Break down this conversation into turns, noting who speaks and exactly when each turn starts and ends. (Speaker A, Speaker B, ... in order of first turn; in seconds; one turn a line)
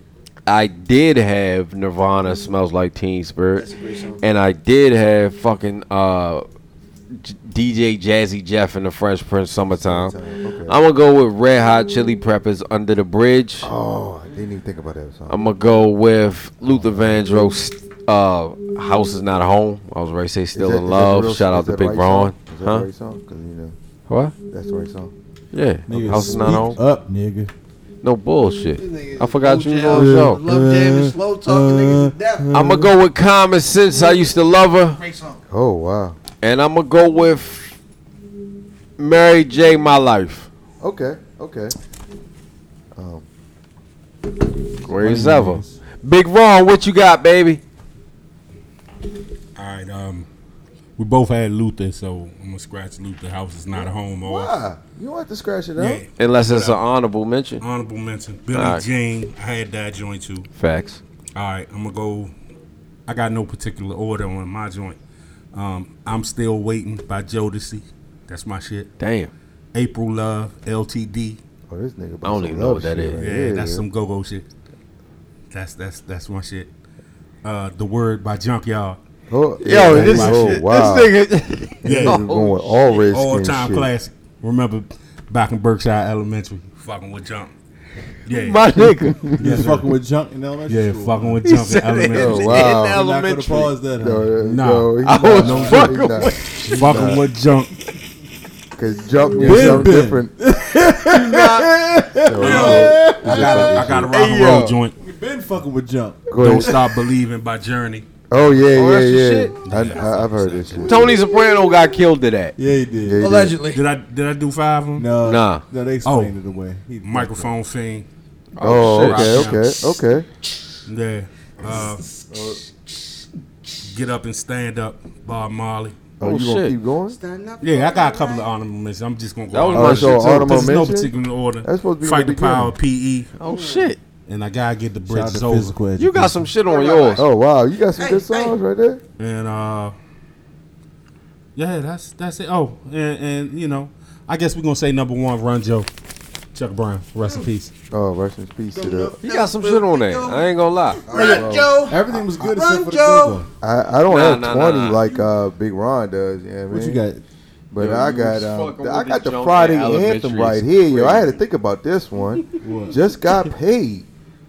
Speaker A: 0.5-3.7
Speaker B: 3.6-4.2
Speaker A: 4.2-6.4
Speaker A: 7.1-10.2
Speaker C: 9.7-10.8
Speaker A: 10.7-13.7
Speaker C: 13.6-15.5
Speaker A: 15.3-22.9
Speaker D: 16.6-17.2
Speaker C: 20.5-23.8
Speaker A: 24.1-24.3
Speaker C: 24.5-25.1
Speaker A: 25.5-26.8
Speaker D: 25.9-27.5
Speaker A: 28.0-30.4
Speaker B: 28.8-32.6
Speaker D: 29.9-32.9
Speaker A: 32.5-35.0
Speaker B: 33.9-34.3
Speaker B: 34.9-35.4
Speaker C: 35.5-36.2
Speaker A: 36.4-37.8
Speaker A: 39.0-40.5
Speaker C: 40.8-41.8
Speaker C: 43.0-43.3
Speaker A: 44.8-47.6
Speaker D: 44.9-45.8
Speaker E: 49.6-50.3
Speaker E: 51.0-54.5
Speaker C: 54.2-56.0
Speaker E: 55.8-56.8
Speaker A: 56.2-57.6
Speaker E: 57.6-60.5
Speaker A: 58.5-58.9
Speaker A: 60.6-61.0
Speaker E: 61.4-62.3
Speaker E: 63.1-65.0
Speaker E: 65.5-68.9
Speaker A: 69.0-69.3
Speaker E: 69.7-71.4
Speaker C: 71.7-73.8
Speaker A: 72.2-73.3
Speaker E: 73.2-74.5
Speaker E: 75.5-76.7
Speaker E: 77.4-79.0
Speaker C: 79.3-81.2
Speaker A: 79.6-82.7
Speaker E: 79.7-80.7
Speaker E: 81.8-82.2
Speaker D: 81.8-82.1
Speaker C: 81.8-83.9
Speaker E: 83.1-87.5
Speaker E: 88.3-88.8
Speaker A: 88.3-89.4
Speaker C: 89.1-89.6
Speaker E: 89.4-89.9
Speaker D: 89.4-91.5
Speaker E: 90.7-92.7
Speaker A: 91.4-93.8
Speaker C: 92.1-93.0
Speaker D: 92.7-94.4
Speaker C: 94.0-97.2
Speaker E: 94.4-96.1
Speaker A: 95.0-97.0
Speaker D: 95.4-97.2
Speaker E: 96.7-97.8
Speaker C: 98.8-100.3
Speaker D: 99.4-103.9
Speaker E: 99.4-99.9
Speaker A: 99.5-99.8
Speaker A: 101.0-101.7
Speaker C: 102.2-104.5
Speaker E: 102.4-105.0
Speaker A: 104.1-104.8
Speaker D: 105.0-107.0
Speaker C: 106.3-106.9
Speaker E: 106.3-108.4
Speaker C: 108.3-111.2
Speaker A: 108.7-109.6
Speaker E: 109.6-111.1
Speaker A: 110.8-112.5
Speaker B: 111.3-111.7
Speaker D: 112.6-113.3
Speaker C: 113.0-113.6
Speaker B: 113.2-113.8
Speaker E: 113.7-115.1
Speaker D: 115.0-117.5
Speaker A: 115.2-115.6
Speaker E: 116.0-116.4
Speaker E: 117.0-118.1
Speaker A: 118.6-119.6
Speaker E: 118.6-119.7
Speaker C: 118.6-120.3
Speaker E: 120.9-122.0
Speaker B: 121.6-123.3
Speaker C: 122.3-122.6
Speaker E: 123.9-126.0
Speaker C: 126.2-127.2
Speaker A: 126.2-126.8
Speaker B: 127.1-128.5
Speaker E: 127.6-133.3
Speaker A: 129.5-130.8
Speaker C: 129.7-132.7
Speaker A: 133.4-134.0
Speaker B: 133.4-133.9
Speaker E: 134.3-135.8
Speaker D: 135.1-136.5
Speaker A: 136.0-137.2
Speaker B: 136.7-137.3
Speaker C: 137.2-139.0
Speaker B: 137.9-138.6
Speaker E: 139.2-139.9
Speaker E: 141.6-145.9
Speaker E: 146.5-147.7
Speaker B: 147.2-147.5
Speaker C: 147.9-149.2
Speaker B: 148.7-153.4
Speaker A: 149.2-151.1
Speaker C: 151.1-151.7
Speaker D: 151.2-153.5
Speaker C: 153.6-157.0
Speaker A: 154.1-155.0
Speaker D: 156.7-157.2
Speaker C: 157.7-164.1
Speaker A: 157.8-161.4
Speaker D: 162.6-163.0